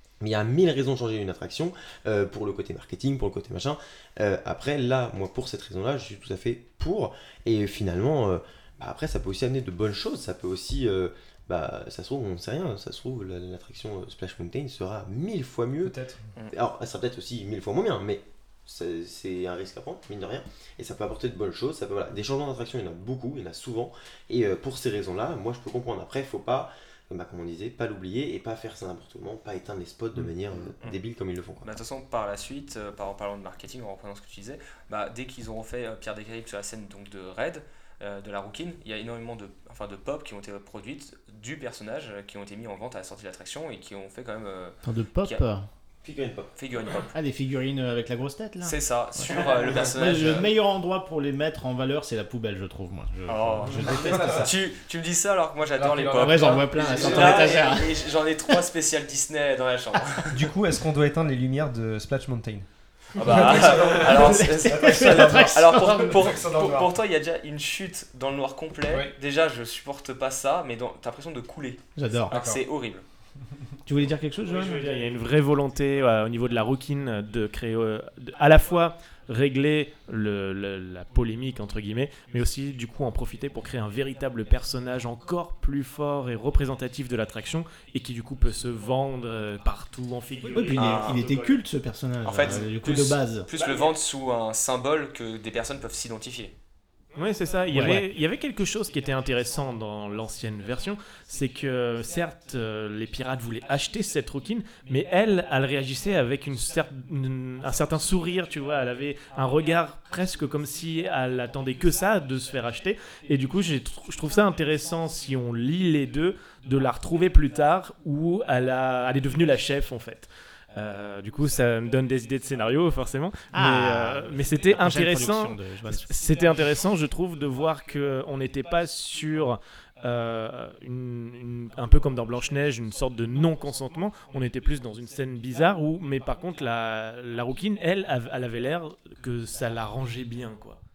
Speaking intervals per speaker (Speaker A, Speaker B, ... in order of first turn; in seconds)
Speaker A: 0.2-15.9, 16.5-31.7, 46.0-46.5
Speaker B: 15.8-16.2, 53.9-54.4, 55.8-57.6, 60.3-66.9, 68.9-69.1, 72.3-72.6
Speaker C: 31.6-45.4, 46.5-47.1, 48.6-50.5, 53.3-60.5, 63.2-73.0, 90.7-91.2, 92.2-96.5
Speaker D: 44.8-45.7, 47.1-54.3, 56.0-57.9, 63.4-66.2, 72.0-72.3, 73.8-74.9, 90.4-93.5, 97.7-98.0, 123.5-126.1
Speaker E: 74.4-91.6, 93.5-93.9, 97.1-140.8